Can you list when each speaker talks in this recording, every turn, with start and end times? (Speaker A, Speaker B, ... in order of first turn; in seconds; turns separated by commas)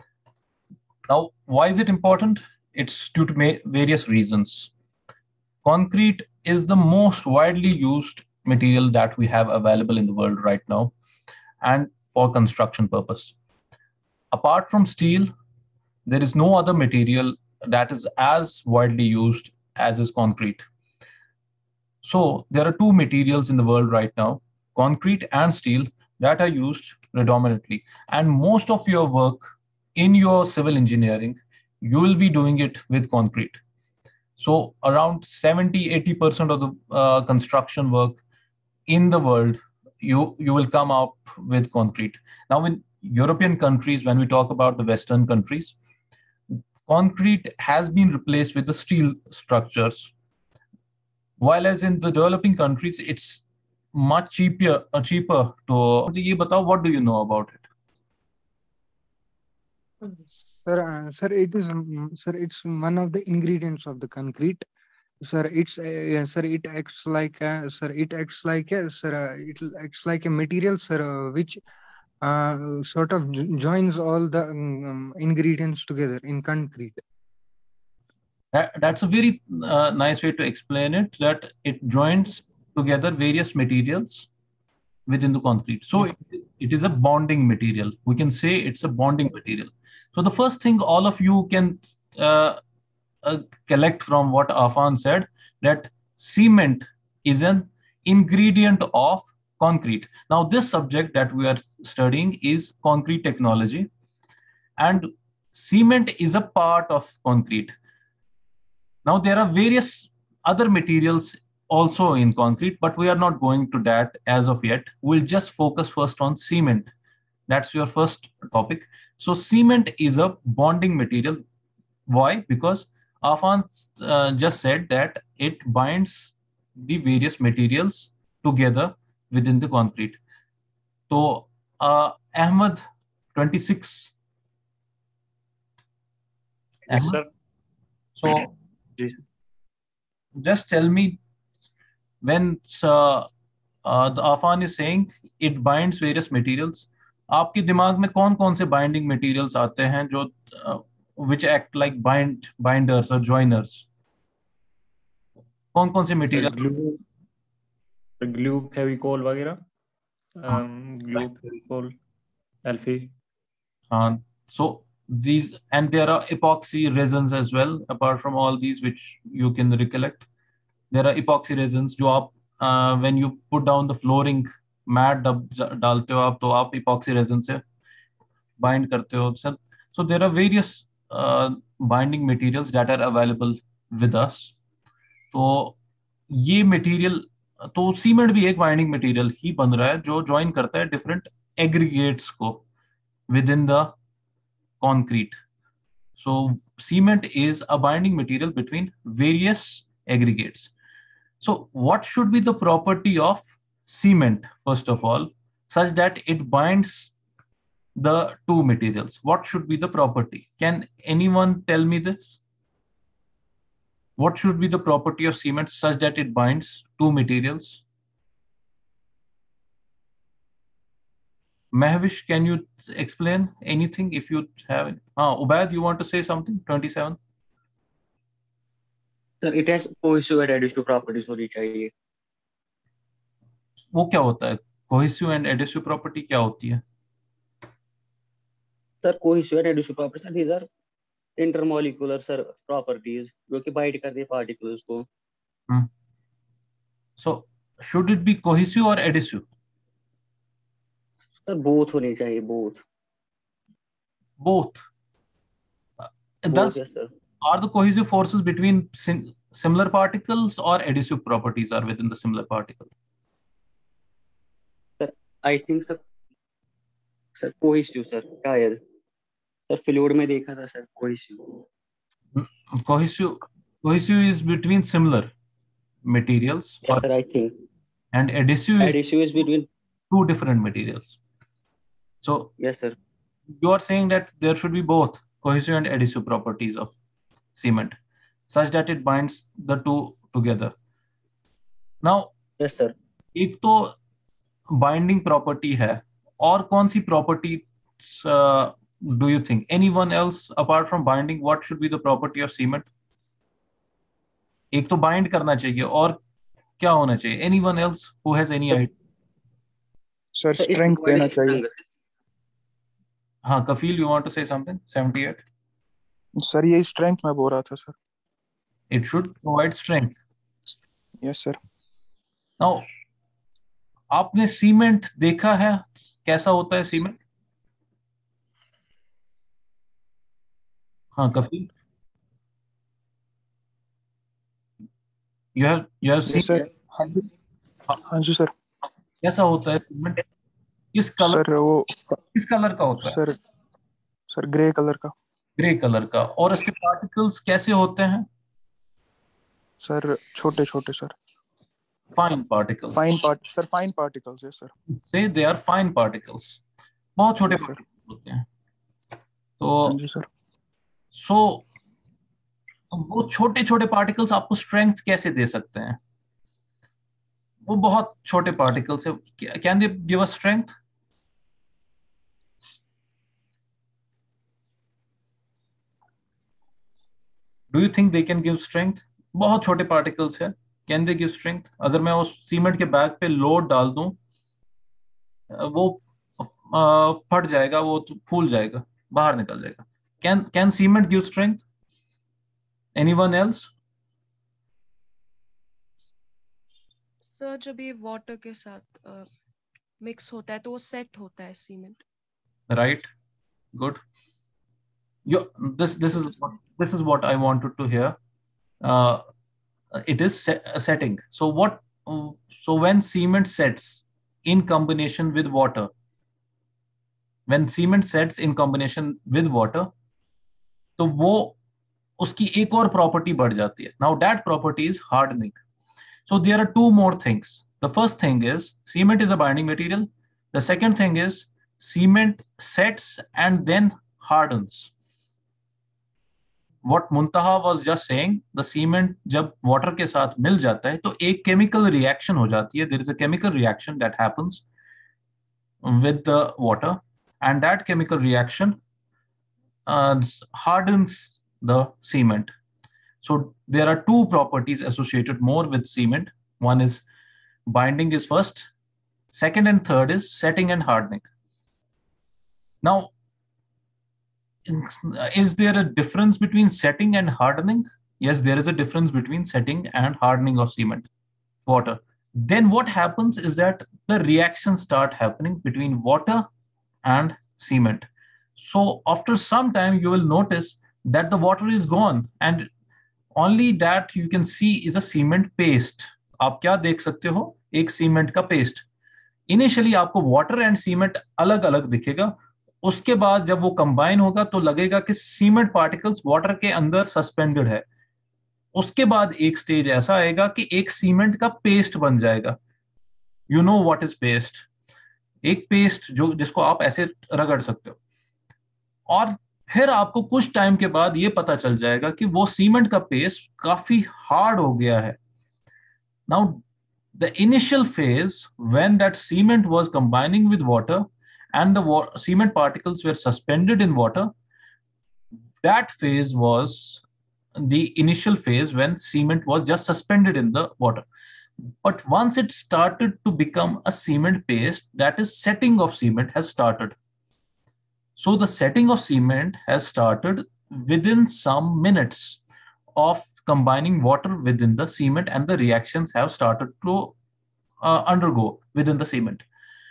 Speaker A: 1.1-4.7, Speaker A: 5.6-10.9, Speaker A: 11.6-13.3, Speaker A: 14.3-15.3, Speaker A: 16.1-20.6, Speaker A: 22.0-33.6, Speaker A: 34.4-38.2, Speaker A: 38.9-45.8, Speaker A: 46.9-50.1, Speaker A: 51.4-57.6, Speaker B: 60.0-64.7, Speaker B: 65.2-71.6, Speaker B: 72.2-77.0, Speaker A: 78.5-84.3, Speaker A: 85.1-92.6, Speaker A: 93.2-103.9, Speaker A: 104.8-107.8, Speaker A: 109.0-116.9, Speaker A: 117.5-121.4, Speaker A: 122.1-130.2, Speaker A: 131.1-132.8, Speaker A: 133.3-134.1, Speaker C: 136.9-137.3, Speaker A: 136.9-137.2, Speaker A: 138.2-138.5, Speaker A: 140.4-141.2, Speaker A: 142.2-143.3, Speaker A: 143.8-153.8, Speaker A: 155.7-156.6, Speaker C: 156.3-157.0, Speaker C: 158.2-159.6, Speaker C: 160.4-162.0, Speaker C: 162.7-163.1, Speaker A: 163.9-170.3, Speaker A: 170.9-177.6, Speaker A: 178.6-184.5, Speaker A: 185.3-185.8, Speaker A: 186.3-192.6, Speaker A: 193.3-193.9, Speaker A: 194.8-195.4, Speaker A: 196.2-200.7, Speaker A: 201.4-207.1, Speaker A: 208.0-212.4, Speaker A: 214.2-217.8, Speaker A: 221.7-227.2, Speaker D: 229.4-231.9, Speaker A: 233.9-236.8, Speaker D: 239.0-240.7, Speaker D: 241.4-245.1, Speaker A: 247.2-249.4, Speaker D: 251.3-252.8, Speaker A: 254.4-254.8, Speaker A: 256.4-256.8, Speaker D: 256.5-257.1, Speaker A: 257.4-262.9, Speaker D: 265.0-266.0, Speaker D: 267.4-268.8, Speaker D: 269.7-271.6, Speaker A: 272.4-275.3, Speaker A: 276.0-277.0, Speaker D: 276.9-277.6, Speaker A: 278.1-279.0, Speaker D: 278.8-279.7, Speaker A: 280.1-281.2, Speaker A: 282.2-282.5, Speaker D: 282.6-283.0, Speaker A: 283.5-286.9, Speaker A: 287.6-288.0, Speaker A: 288.5-290.7, Speaker A: 292.0-292.3, Speaker D: 292.6-292.9, Speaker A: 293.4-293.9, Speaker A: 294.7-302.9, Speaker A: 304.7-306.2, Speaker A: 306.8-308.9, Speaker E: 310.3-311.6, Speaker D: 310.6-311.8, Speaker A: 313.4-315.4, Speaker E: 316.4-318.0, Speaker A: 318.9-320.2, Speaker E: 321.2-321.6, Speaker A: 322.6-322.9, Speaker A: 324.1-327.2, Speaker A: 331.1-331.7, Speaker A: 335.6-336.6, Speaker E: 336.3-337.3, Speaker E: 337.9-338.5, Speaker A: 339.2-340.2, Speaker A: 340.9-341.4, Speaker E: 341.2-341.9, Speaker A: 342.3-343.2, Speaker E: 343.0-343.4, Speaker E: 344.3-345.1, Speaker A: 345.6-348.3, Speaker E: 349.8-351.2, Speaker A: 352.1-353.0, Speaker E: 352.9-354.7, Speaker A: 354.9-356.6, Speaker A: 357.2-358.4, Speaker E: 357.5-357.8, Speaker A: 359.6-360.0, Speaker E: 359.8-360.3, Speaker A: 361.1-361.6, Speaker A: 362.9-366.0, Speaker A: 367.7-370.8, Speaker A: 377.7-384.2, Speaker A: 385.5-391.6, Speaker A: 392.9-393.7, Speaker F: 397.2-399.3, Speaker F: 400.0-402.0, Speaker A: 402.7-403.1, Speaker A: 403.8-404.0, Speaker A: 405.3-408.2, Speaker A: 408.8-409.2, Speaker A: 409.9-415.9, Speaker A: 417.5-419.9, Speaker A: 421.0-421.6, Speaker A: 422.2-425.6, Speaker A: 426.3-434.9, Speaker A: 436.9-444.6, Speaker A: 445.8-448.8, Speaker A: 449.9-452.5, Speaker A: 453.2-457.0, Speaker A: 457.7-458.7, Speaker A: 459.3-461.2, Speaker A: 462.8-463.1, Speaker A: 464.7-471.1, Speaker A: 471.7-476.5, Speaker A: 477.0-482.7, Speaker A: 483.4-488.9, Speaker A: 489.5-497.9, Speaker A: 498.7-502.6, Speaker A: 503.5-504.7, Speaker A: 505.4-508.0, Speaker A: 509.1-515.2, Speaker A: 516.3-516.6, Speaker A: 517.1-524.3, Speaker A: 525.6-527.0, Speaker A: 527.6-531.1, Speaker A: 531.8-537.0, Speaker A: 538.2-542.4, Speaker A: 543.0-547.1, Speaker A: 547.8-549.4